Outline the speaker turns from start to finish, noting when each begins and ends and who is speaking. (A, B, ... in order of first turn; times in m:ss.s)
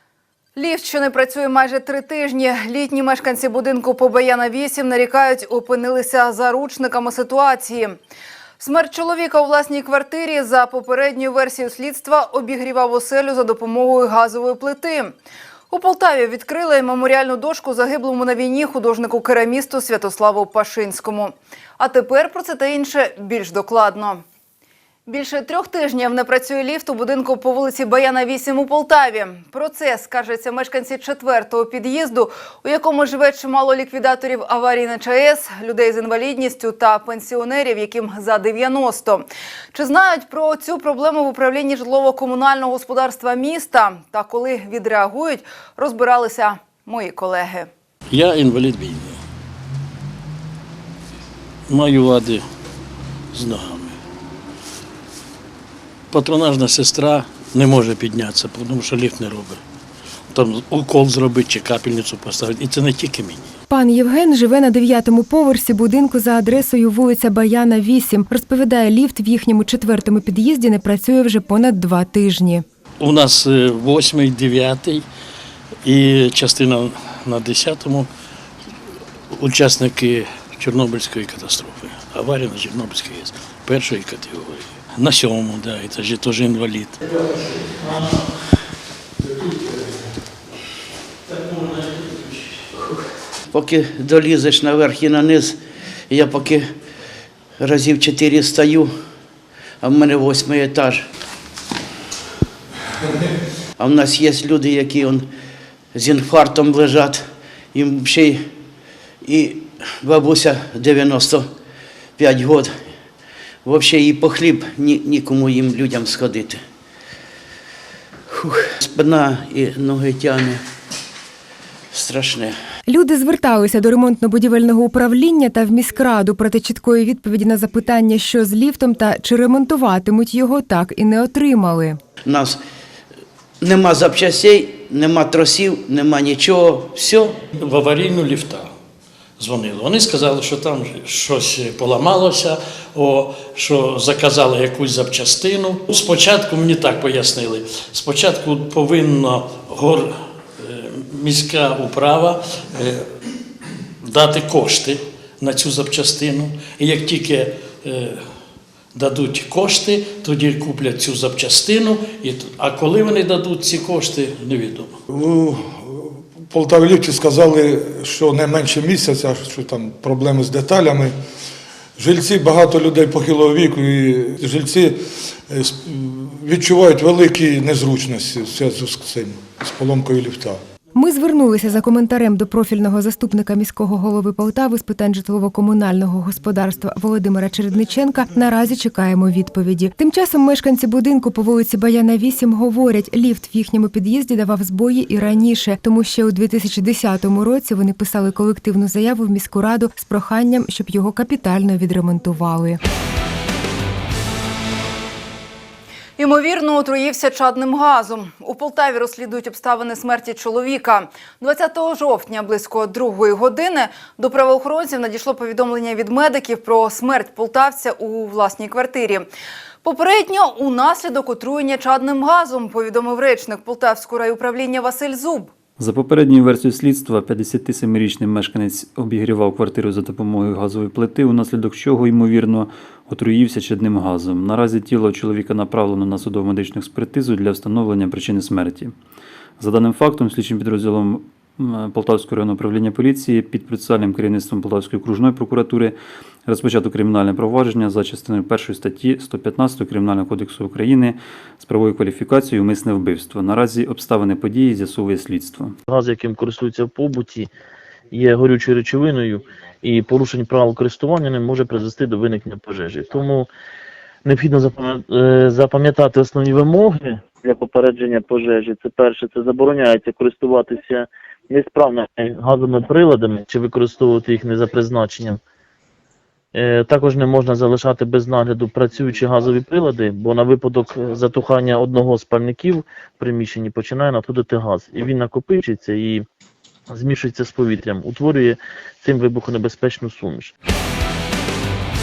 0:00.6-0:08.0 A
0:08.6-0:15.1 A
0:15.7-0:24.2 A
0:25.1-0:47.7 A
0:48.1-0:49.2 B
0:51.7-0:52.4 B
0:53.3-0:54.0 B
0:56.1-0:59.6 B
1:00.3-1:03.5 B
1:03.7-1:12.6 C
1:13.0-1:15.0 B
1:15.8-1:18.1 B
1:19.3-1:27.0 B
1:31.3-1:32.0 B
1:33.5-1:35.6 D
1:36.1-1:36.7 D
1:37.6-1:38.9 D
1:39.8-1:41.1 D
1:43.8-1:45.3 D
1:45.9-1:48.5 D
1:49.2-1:51.5 D
1:52.2-1:52.7 D
1:53.6-1:56.6 D
1:58.3-2:00.6 D
2:01.9-2:02.6 D
2:02.9-2:12.0 C
2:12.2-2:12.6 D
2:13.6-2:17.3 D
2:17.4-2:18.7 B
2:19.4-2:33.1 B
2:34.0-2:38.2 B
2:39.0-2:45.0 B
2:45.1-2:51.2 E
2:52.0-2:55.0 E
2:55.5-3:00.6 E
3:01.0-3:22.8 C
3:26.2-3:39.3 A
3:39.8-3:45.5 A
3:45.8-3:58.9 F
3:59.6-4:15.8 F
4:15.9-4:17.5 G
4:18.1-4:23.5 G
4:24.2-4:35.4 G
4:36.6-4:46.2 G
4:46.9-4:50.5 G